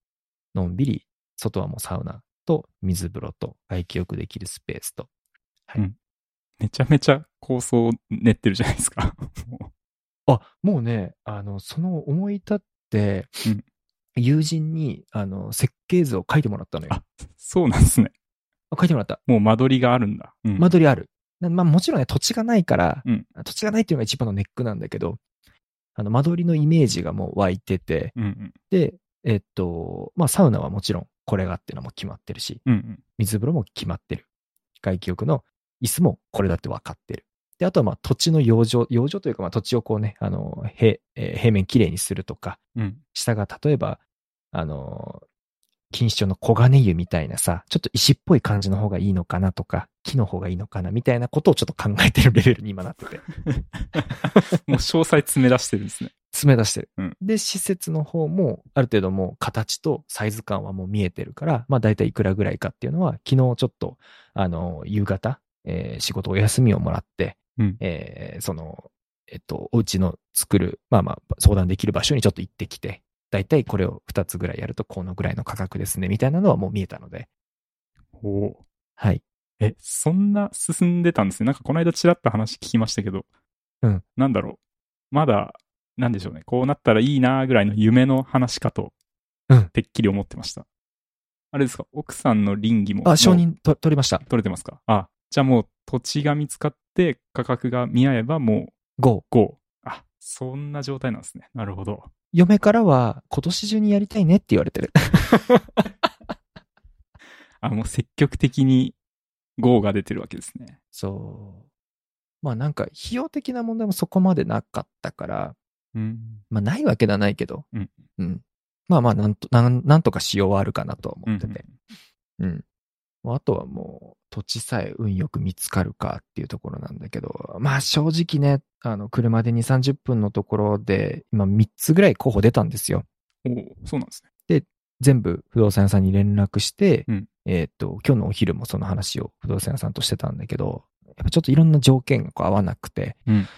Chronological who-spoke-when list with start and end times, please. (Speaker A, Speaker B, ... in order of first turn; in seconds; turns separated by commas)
Speaker A: 0.5-5.1, Speaker B: 6.6-9.7, Speaker A: 10.3-13.4, Speaker A: 14.2-17.0, Speaker B: 16.9-18.1, Speaker A: 18.7-19.2, Speaker B: 19.3-20.7, Speaker A: 20.6-25.2, Speaker A: 25.9-28.1, Speaker B: 28.1-28.5, Speaker A: 28.7-32.6, Speaker B: 32.6-33.0, Speaker A: 33.2-34.2, Speaker A: 34.8-42.6, Speaker B: 42.8-43.0, Speaker A: 43.1-45.2, Speaker A: 45.9-53.2, Speaker B: 53.4-56.1, Speaker A: 56.3-77.3, Speaker B: 78.2-78.6, Speaker A: 79.0-79.2, Speaker B: 79.6-83.3, Speaker B: 84.2-84.6, Speaker B: 85.1-88.9, Speaker B: 89.7-90.7, Speaker B: 91.5-93.4, Speaker A: 93.0-94.2, Speaker B: 94.2-98.8, Speaker A: 99.0-99.2, Speaker B: 99.3-102.1, Speaker A: 102.3-105.9, Speaker B: 107.6-109.0, Speaker B: 109.6-110.8, Speaker A: 110.9-111.7, Speaker A: 112.4-115.5, Speaker B: 115.9-116.4, Speaker A: 116.5-117.7, Speaker B: 117.7-118.0, Speaker A: 118.2-121.6, Speaker B: 121.2-121.8, Speaker A: 122.4-122.6, Speaker A: 123.2-133.0, Speaker B: 133.4-134.2, Speaker A: 134.5-143.2